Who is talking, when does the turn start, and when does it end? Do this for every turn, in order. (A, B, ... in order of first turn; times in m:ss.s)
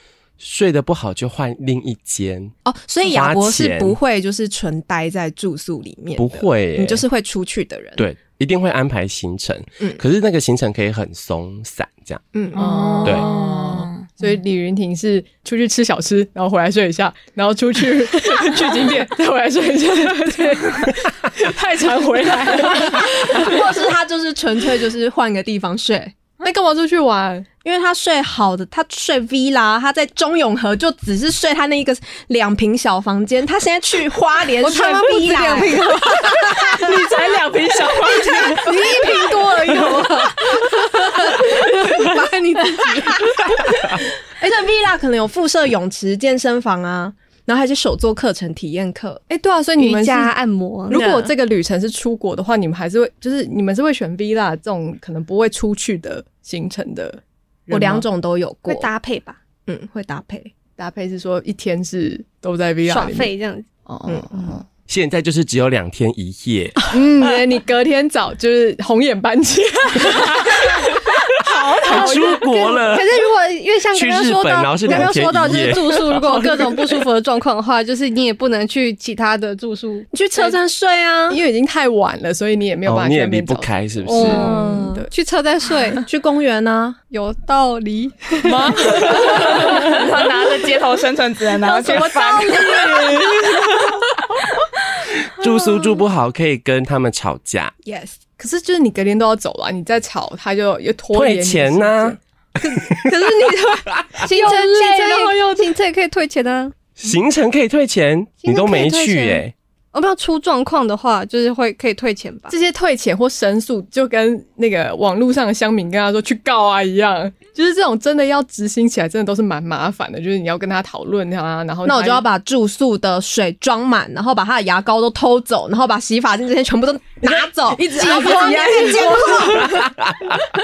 0:00.4-0:04.0 A
0:02.6-0:08.0 B
0:06.2-0:07.0 A
0:08.0-0:12.2 A
0:12.3-0:13.1 B
0:12.5-0:14.1 C
0:12.5-0:23.8 D
0:13.0-0:13.3 A
0:22.7-0:26.1 B
0:26.4-0:27.5 D
0:27.6-0:36.0 B
0:34.6-0:36.9 E
0:34.6-0:40.6 D
0:38.0-0:43.4 E
0:38.9-0:39.3 B
0:41.3-0:42.1 D
0:42.8-0:49.2 B
0:49.3-0:50.3 D
0:49.8-0:51.3 E
0:50.9-0:58.1 D
0:57.7-0:58.9 B
0:58.7-0:59.4 E
0:59.7-1:00.5 B
1:00.8-1:03.3 D
1:02.9-1:03.7 E
1:03.9-1:04.6 D
1:04.9-1:06.8 A
1:06.9-1:12.2 D
1:11.4-1:20.6 E
1:11.8-1:13.1 A
1:13.9-1:16.1 A
1:15.8-1:17.0 D
1:20.1-1:21.4 B
1:21.3-1:25.1 D
1:22.9-1:24.5 A
1:24.1-1:26.1 E
1:26.0-1:27.0 B
1:27.1-1:29.9 E
1:28.4-1:30.1 D
1:29.2-1:33.4 C
1:31.6-1:34.4 D
1:35.3-1:37.7 A
1:37.8-1:38.2 B
1:38.4-1:45.3 D
1:41.1-1:42.2 A
1:42.8-1:43.0 A
1:44.2-1:45.4 B
1:44.2-1:46.7 E
1:47.0-1:49.5 A
1:48.4-1:52.6 E
1:52.5-2:02.2 D
2:01.8-2:09.9 B
2:07.3-2:09.8 D
2:09.7-2:10.5 A